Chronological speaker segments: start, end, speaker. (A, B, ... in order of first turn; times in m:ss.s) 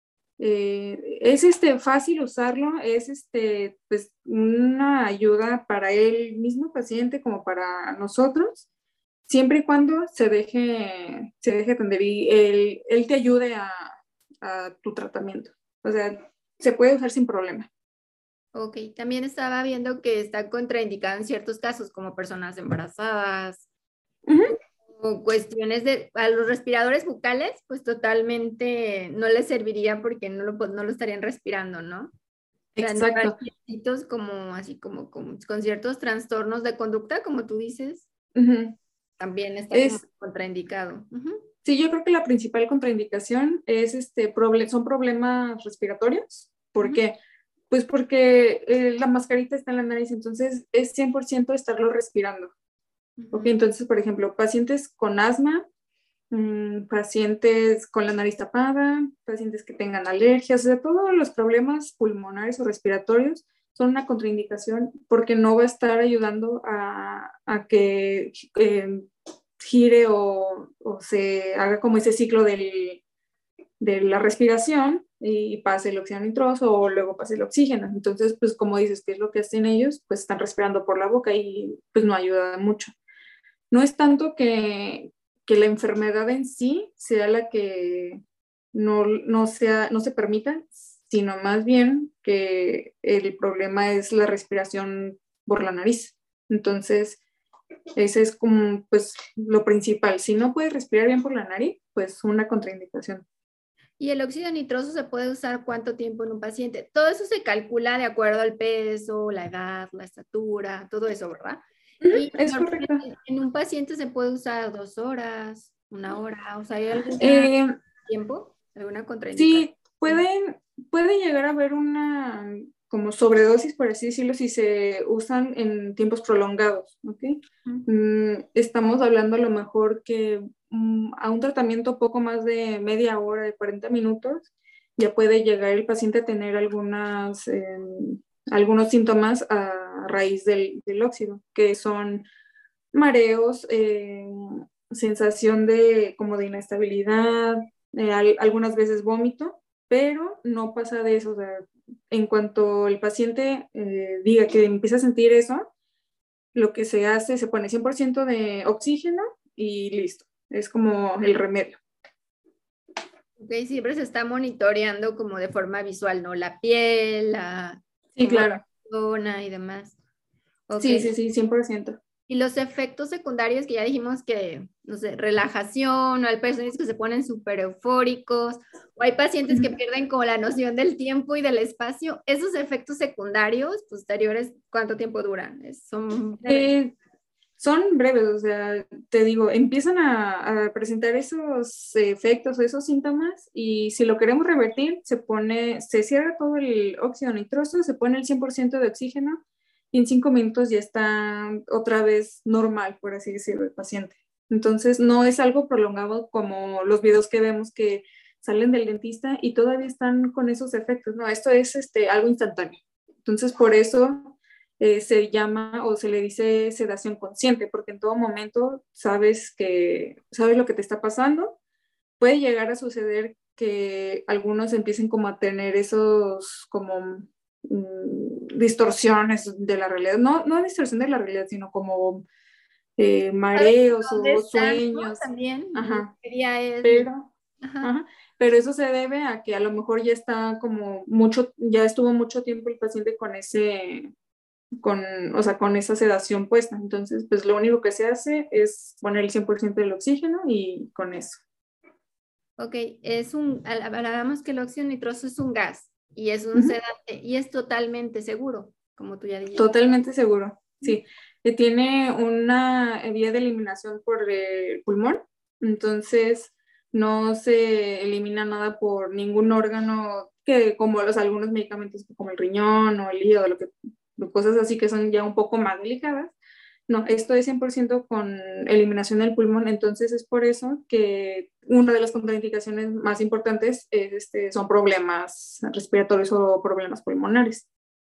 0:00.4-0:08.6 A
0:09.3-0:17.7 A
0:18.5-0:23.7 B
0:24.3-0:24.5 A
0:25.0-0:32.1 B
0:32.8-0:33.3 A
0:32.8-0:38.1 B
0:38.3-0:38.8 A
0:39.2-0:41.4 B
0:39.7-0:40.0 A
0:41.6-0:47.1 A
0:47.7-0:52.5 A
0:53.2-0:53.6 B
0:53.3-0:55.6 A
0:56.3-1:09.0 A
1:09.6-1:13.0 A
1:13.8-1:22.9 A
1:23.7-1:28.2 A
1:28.7-1:37.2 A
1:38.0-1:43.2 A
1:44.0-1:57.5 B
1:52.0-1:53.0 A
1:57.2-1:57.7 A
1:58.0-2:00.2 B
1:59.3-2:22.2 A
2:22.9-2:35.7 A
2:36.5-2:41.8 A
2:43.4-2:50.0 B
2:48.1-2:48.6 A
2:50.7-2:51.1 B
2:50.8-2:52.0 A
2:52.3-3:06.7 B
3:06.4-3:06.9 A
3:07.6-3:41.6 A
3:42.2-3:52.2 A
3:53.0-3:55.2 A
3:53.5-3:57.1 B
3:55.7-3:56.1 A
3:56.8-3:57.3 A
3:57.6-3:57.9 B
3:57.8-4:04.1 A
4:04.8-4:11.4 A
4:12.6-4:19.7 B
4:19.6-4:36.4 A
4:36.9-4:47.7 A